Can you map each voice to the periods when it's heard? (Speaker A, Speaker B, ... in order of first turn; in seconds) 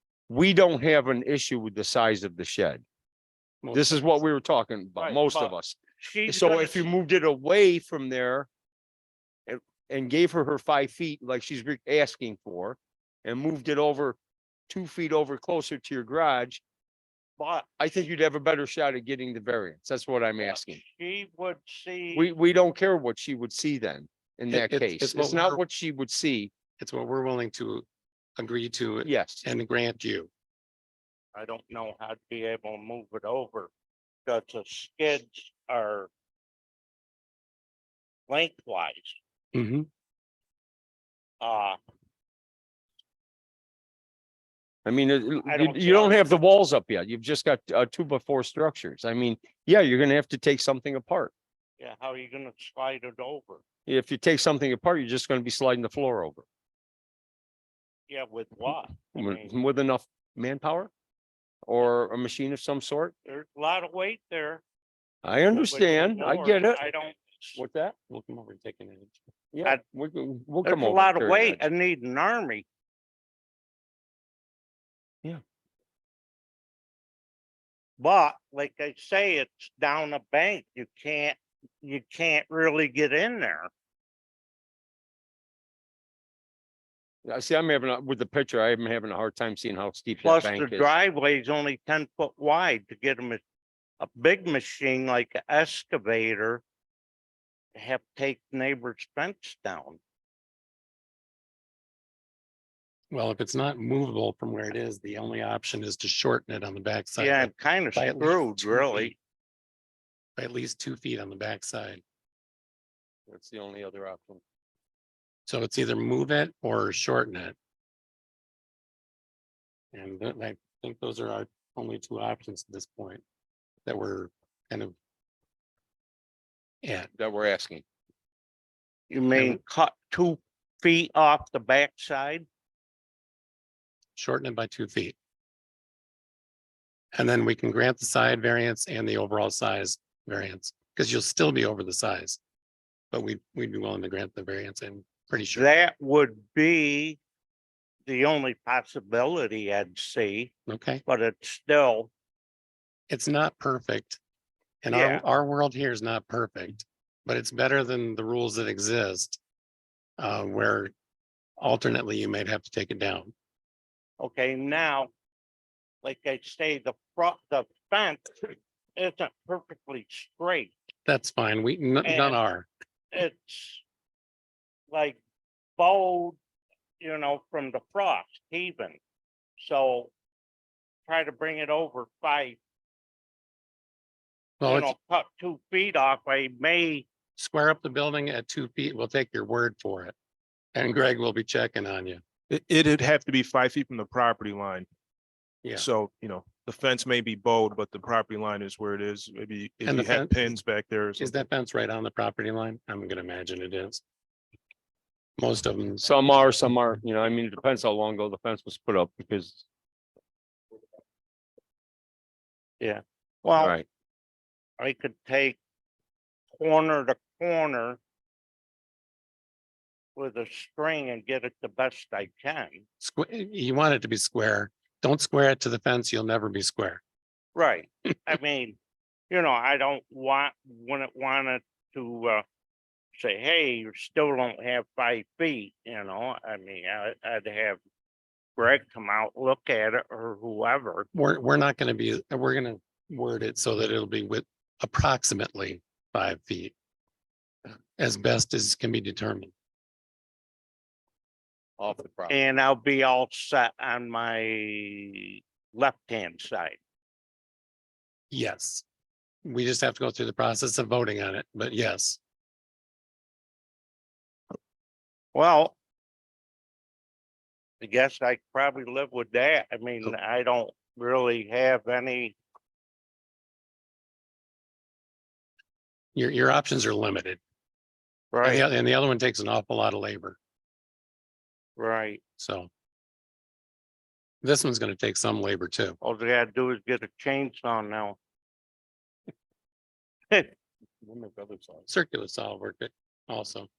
Speaker A: 0.3-2.8, 3.7-8.5, 9.5-14.2, 14.7-16.6, 17.8-20.8, 22.1-26.5, 29.0-29.4, 44.9-51.3, 53.9-56.5, 59.1-60.9, 61.7-63.1, 65.2-66.9, 67.5-68.1, 69.5-71.6, 87.2-90.9, 113.3-114.4, 127.2-127.8, 206.0-209.6, 213.6-213.8, 251.8-252.4, 291.0-291.9
Speaker B: 3.6-4.1, 24.5-25.6, 26.8-27.9, 28.4-30.3, 39.5-39.9, 68.1-69.2, 103.1-109.1, 110.4-112.0, 115.5-117.5, 119.9-123.2, 123.8-125.0, 126.8-127.1, 129.3-129.6, 134.2-135.2, 137.1-142.4, 143.1-145.7, 150.7-151.0, 153.1-154.2, 154.8-159.4, 160.2-160.9, 161.6-163.3, 171.1-172.7, 184.6-184.9, 187.4-190.2, 190.8-192.2, 199.8-200.5, 201.2-204.0, 205.4-206.1, 223.0-227.0, 241.1-246.7, 248.0-249.5, 258.3-258.9, 259.4-262.2, 276.1-277.4, 278.4-280.4, 282.4-282.7, 284.4-286.0, 291.9-293.7
Speaker C: 5.0-6.9, 17.4-17.8, 20.4-22.3, 31.4-33.7, 34.3-36.1, 38.3-39.2, 41.4-41.8, 45.5-46.3, 51.8-53.6, 58.1-59.5, 63.2-64.6, 65.5-67.6, 70.7-72.7, 78.0-83.7, 90.2-93.4, 94.0-96.6, 97.8-100.0, 107.2-109.2, 129.1-132.4, 145.6-147.2, 148.1-150.5, 151.1-152.1, 154.9-155.2, 164.2-165.1, 166.0-170.7, 172.0-172.4, 173.1-173.8, 174.9-175.2, 175.8-176.4, 177.0-179.0, 179.6-180.1, 181.1-182.6, 184.6-187.1, 212.8-213.8, 214.8-215.6, 216.5-218.0, 220.2-222.8, 227.6-228.8, 229.3-232.4, 233.2-237.8, 238.6-241.1, 252.3-256.8, 265.3-265.8, 267.8-272.4, 278.3-278.6, 281.8-282.2, 286.0-288.2
Speaker D: 192.5-194.9, 195.8-201.3